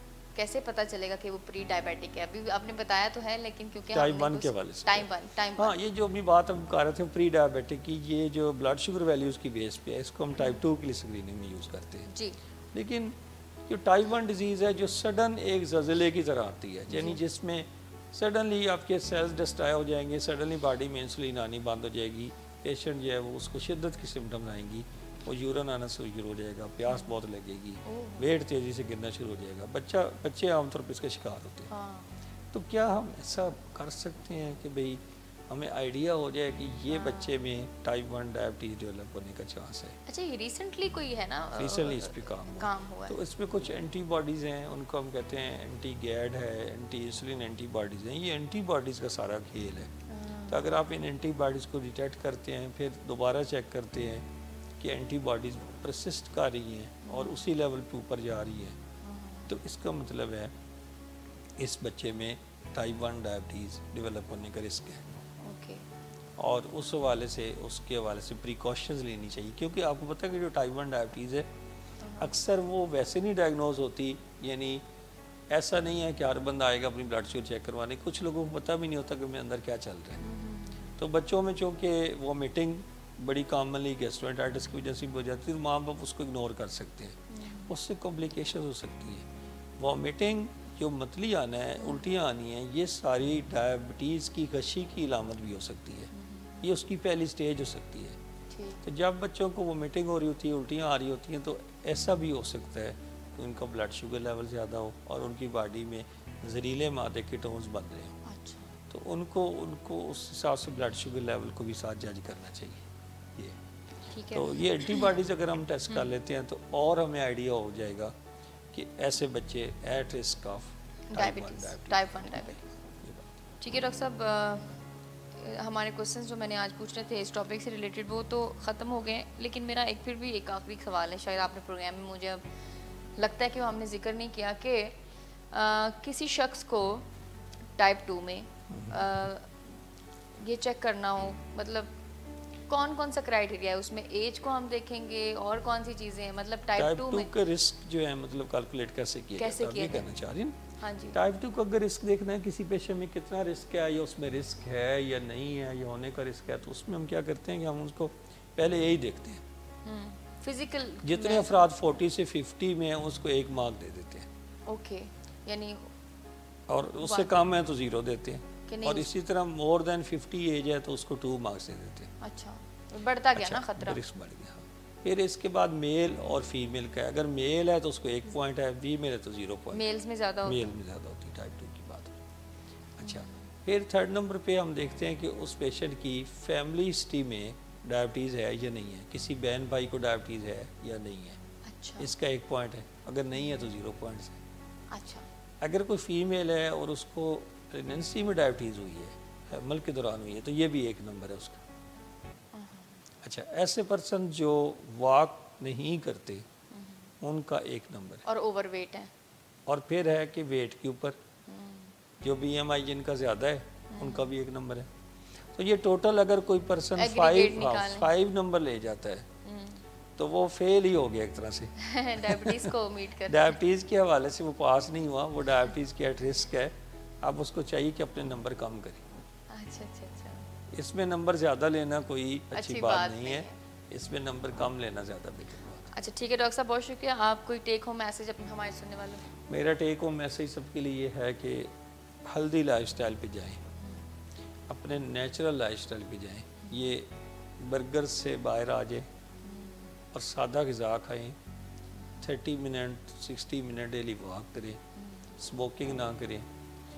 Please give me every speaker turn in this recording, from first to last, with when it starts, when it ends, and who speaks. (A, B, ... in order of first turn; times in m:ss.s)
0:00.3-0:05.8 A
0:03.9-0:12.1 B
0:12.1-0:12.4 A
0:12.7-0:13.1 B
0:13.6-0:31.7 B
0:16.9-0:17.2 A
0:27.8-0:28.3 A
0:31.7-0:32.1 A
0:32.5-0:40.0 B
0:36.9-0:37.4 A
0:40.0-0:43.2 A
0:41.5-0:49.9 B
0:50.1-0:50.7 A
0:50.5-0:54.2 B
0:54.8-0:58.8 B
0:57.0-0:57.5 A
0:59.0-0:59.5 A
0:59.5-1:00.5 B
1:01.6-1:05.0 B
1:05.4-1:05.8 A
1:06.4-1:11.5 B
1:12.0-1:12.4 A
1:12.2-1:14.8 B
1:15.5-1:20.2 B
1:20.2-1:21.0 A
1:21.0-1:29.2 B
1:27.3-1:27.7 A
1:29.8-1:36.1 B
1:36.1-1:36.6 A
1:36.6-1:38.2 B
1:38.5-1:38.8 A
1:38.8-1:48.2 B
1:48.2-1:48.7 A
1:48.9-1:53.6 B
1:54.1-1:55.1 A
1:54.3-1:58.1 B
1:58.7-2:03.3 B
2:01.1-2:02.6 A
2:03.6-2:04.8 A
2:05.3-2:12.4 A
2:13.2-2:15.0 A
2:15.5-2:17.0 A
2:17.8-2:19.5 A
2:18.7-2:19.1 B
2:20.4-2:21.9 A
2:22.7-2:27.3 A
2:26.8-2:30.6 B
2:29.4-2:30.1 A
2:30.8-2:31.2 A
2:31.1-2:39.4 B
2:39.8-2:41.6 A
2:41.0-2:44.3 B
2:44.7-2:45.9 A
2:46.7-2:52.1 B
2:47.0-2:47.4 A
2:48.7-2:49.1 A
2:52.2-2:54.0 A
2:53.4-2:59.8 B
2:59.7-3:00.8 A
3:00.4-3:02.2 B
3:03.0-3:03.5 A
3:03.0-3:11.4 B
3:11.6-3:12.1 A
3:12.0-3:14.4 B
3:14.9-3:15.2 A
3:15.6-3:21.6 B
3:22.5-3:23.0 A
3:23.2-3:26.4 B
3:26.7-3:27.1 A
3:27.2-3:28.2 B
3:28.2-3:29.1 A
3:29.6-3:31.2 B
3:31.5-3:31.9 A
3:32.2-3:34.9 B
3:33.9-3:34.3 A
3:35.5-3:39.2 B
3:36.9-3:38.1 A
3:39.4-3:39.8 A
3:40.2-3:42.7 B
3:41.8-3:43.5 A
3:43.2-3:49.0 B
3:49.5-3:50.4 A
3:50.7-3:55.9 B
3:52.5-3:53.6 A
3:55.9-3:59.3 A
3:59.5-4:01.7 B
4:02.3-4:03.6 B
4:04.7-4:07.1 B
4:07.6-4:09.1 B
4:09.4-4:09.9 A
4:10.1-4:11.4 B
4:12.2-4:14.8 B
4:15.0-4:15.2 A
4:15.4-4:16.4 B